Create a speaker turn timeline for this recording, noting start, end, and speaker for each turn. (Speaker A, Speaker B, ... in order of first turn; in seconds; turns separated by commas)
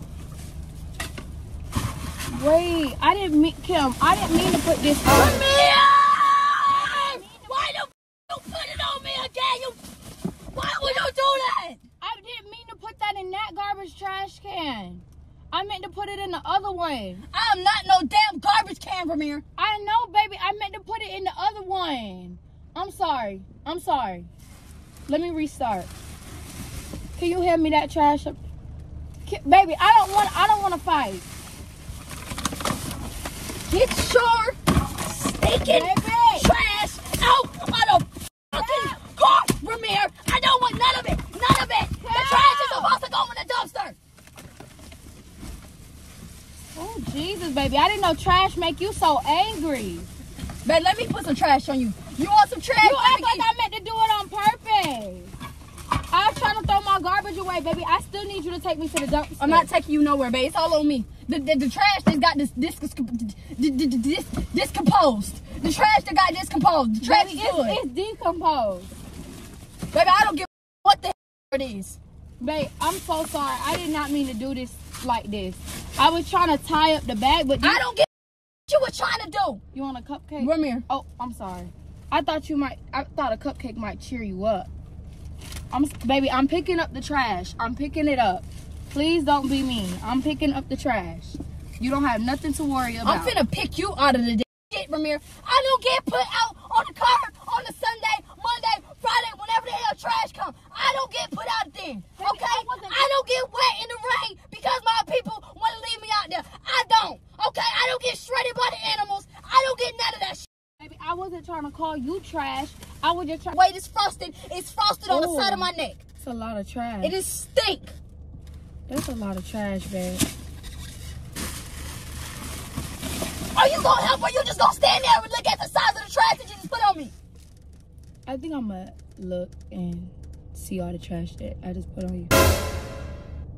Speaker A: 2.3-5.4, Speaker B: 5.0-9.8, Speaker A: 7.0-7.4, Speaker B: 10.5-11.8, Speaker A: 12.0-17.2, Speaker B: 17.3-19.4, Speaker A: 19.6-24.3, Speaker A: 25.1-25.9, Speaker A: 27.2-28.4, Speaker A: 29.2-31.2, Speaker B: 33.7-44.0, Speaker A: 35.7-36.5, Speaker A: 42.0-42.9, Speaker A: 46.7-50.1, Speaker B: 50.6-53.5, Speaker A: 52.8-55.3, Speaker A: 56.1-59.7, Speaker B: 59.4-67.8, Speaker A: 67.0-68.9, Speaker B: 69.9-72.0, Speaker A: 72.4-77.8, Speaker B: 77.6-78.1, Speaker B: 78.7-79.6, Speaker A: 79.7-84.7, Speaker B: 80.4-80.8, Speaker A: 85.7-93.3, Speaker B: 93.0-110.5, Speaker A: 102.2-103.0, Speaker A: 110.8-113.5, Speaker B: 113.5-116.0, Speaker A: 115.1-115.7, Speaker A: 116.2-117.1, Speaker B: 117.0-117.9, Speaker A: 118.9-120.2, Speaker B: 123.5-127.1, Speaker A: 128.3-132.3